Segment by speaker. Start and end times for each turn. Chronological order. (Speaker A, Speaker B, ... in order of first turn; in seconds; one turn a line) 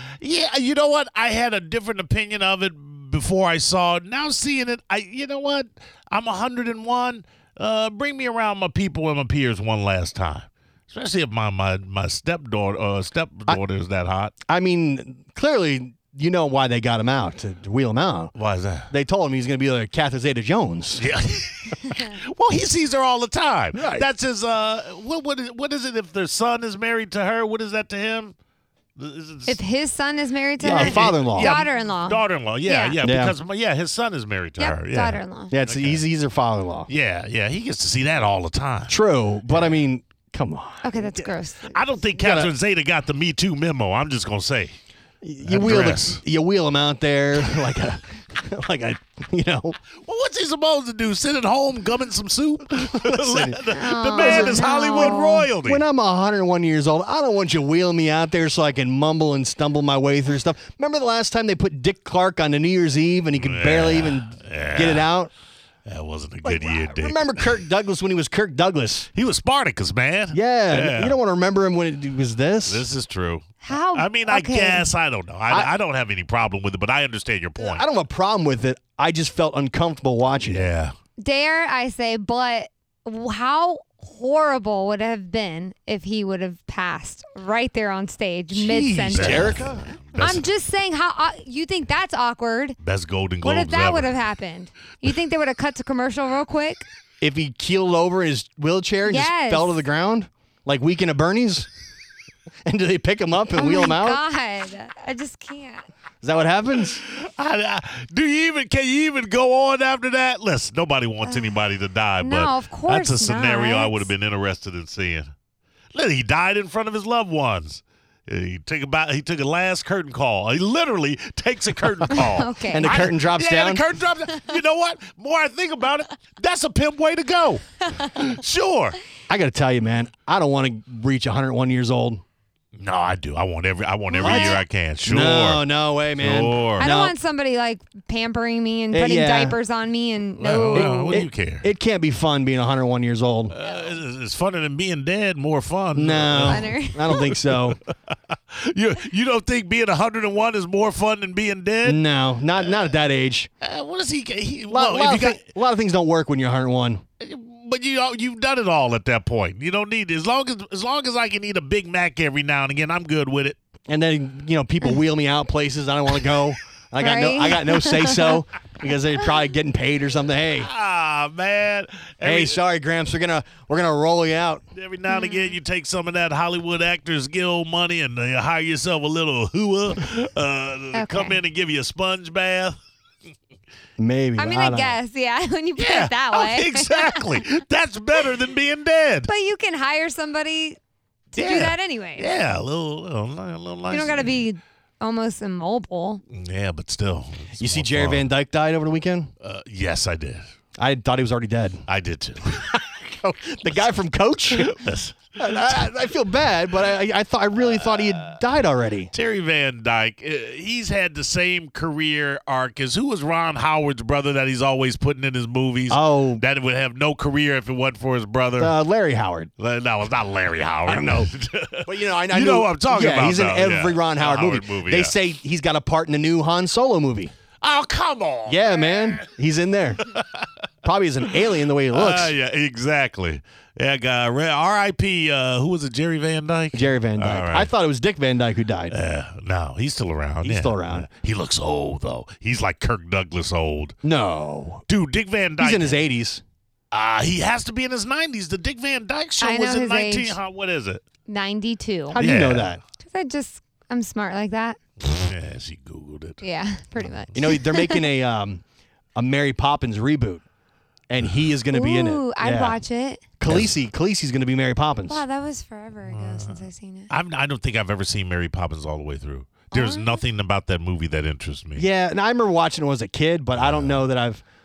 Speaker A: 0.2-14.3
Speaker B: 14.5-18.3
Speaker A: 18.4-18.9
Speaker B: 18.9-21.0
Speaker A: 20.9-28.3
Speaker B: 23.7-24.1
Speaker A: 29.0-29.6
Speaker C: 29.5-33.0
Speaker B: 30.6-31.6
Speaker A: 30.6-36.0
Speaker B: 33.0-33.3
Speaker C: 34.6-35.5
Speaker B: 35.5-36.9
Speaker A: 36.9-39.0
Speaker B: 38.9-41.1
Speaker C: 40.8-42.0
Speaker A: 41.2-44.7
Speaker B: 42.2-42.5
Speaker B: 45.2-49.8
Speaker A: 45.4-46.2
Speaker A: 50.0-55.8
Speaker B: 52.9-65.3
Speaker C: 53.7-55.5
Speaker A: 63.4-65.1
Speaker A: 65.8-67.5
Speaker B: 66.4-69.1
Speaker A: 69.1-71.2
Speaker B: 70.3-72.8
Speaker A: 72.7-77.8
Speaker C: 73.6-74.8
Speaker B: 77.6-80.7
Speaker A: 80.5-80.9
Speaker C: 81.2-89.6
Speaker B: 88.5-89.8
Speaker A: 89.0-90.4
Speaker C: 90.1-92.8
Speaker A: 92.8-94.2
Speaker C: 93.4-96.8
Speaker B: 97.2-101.7
Speaker C: 99.0-99.8
Speaker B: 102.7-104.2
Speaker C: 103.5-105.9
Speaker B: 106.2-107.0
Speaker A: 106.9-115.3
Speaker C: 111.2-111.6
Speaker C: 112.2-114.1
Speaker A: 115.9-129.0
Speaker C: 122.2-122.9
Speaker B: 122.7-123.8
Speaker B: 129.3-132.2
Speaker A: 132.8-135.6
Speaker C: 134.1-134.6
Speaker B: 134.2-137.2
Speaker A: 136.2-136.8
Speaker C: 136.8-141.2
Speaker B: 138.9-139.6
Speaker A: 140.4-141.7
Speaker B: 140.7-143.6
Speaker A: 143.5-147.6
Speaker B: 145.9-147.8
Speaker C: 146.4-147.2
Speaker A: 148.5-152.0
Speaker B: 151.8-153.5
Speaker A: 153.6-155.4
Speaker B: 154.7-157.0
Speaker A: 157.2-163.6
Speaker B: 163.9-170.7
Speaker C: 167.0-168.4
Speaker A: 170.6-172.6
Speaker B: 172.2-174.6
Speaker A: 174.7-182.8
Speaker C: 175.1-175.6
Speaker C: 180.9-181.4
Speaker B: 184.0-185.0
Speaker C: 184.4-187.4
Speaker A: 185.8-189.3
Speaker C: 189.3-190.8
Speaker C: 191.3-192.3
Speaker A: 191.4-194.3
Speaker C: 193.9-196.2
Speaker A: 196.3-198.3
Speaker B: 197.6-199.3
Speaker A: 199.4-200.4
Speaker B: 200.8-201.8
Speaker A: 201.9-202.8
Speaker B: 202.6-204.7
Speaker A: 204.5-205.8
Speaker B: 205.4-209.1
Speaker A: 207.8-208.3
Speaker A: 209.1-218.7
Speaker B: 215.9-216.4
Speaker B: 218.6-219.5
Speaker A: 219.6-225.1
Speaker B: 220.8-221.3
Speaker B: 221.8-227.3
Speaker A: 227.6-229.2
Speaker B: 228.4-230.0
Speaker A: 230.0-230.5
Speaker B: 230.8-232.3
Speaker A: 231.9-237.7
Speaker B: 236.7-238.9
Speaker A: 238.9-244.0
Speaker B: 240.4-241.1
Speaker B: 244.0-244.8
Speaker A: 244.9-246.0
Speaker B: 245.6-246.4
Speaker A: 246.9-251.0
Speaker C: 249.4-250.4
Speaker C: 251.2-252.2
Speaker B: 252.1-252.8
Speaker A: 252.2-252.8
Speaker C: 253.0-254.8
Speaker A: 255.0-256.4
Speaker C: 256.4-258.1
Speaker B: 257.3-258.6
Speaker B: 259.1-260.4
Speaker B: 261.1-262.8
Speaker C: 261.7-263.2
Speaker B: 263.4-265.2
Speaker A: 263.5-263.8
Speaker C: 265.1-267.1
Speaker A: 266.1-271.9
Speaker C: 269.7-270.2
Speaker B: 271.8-274.4
Speaker A: 273.5-274.0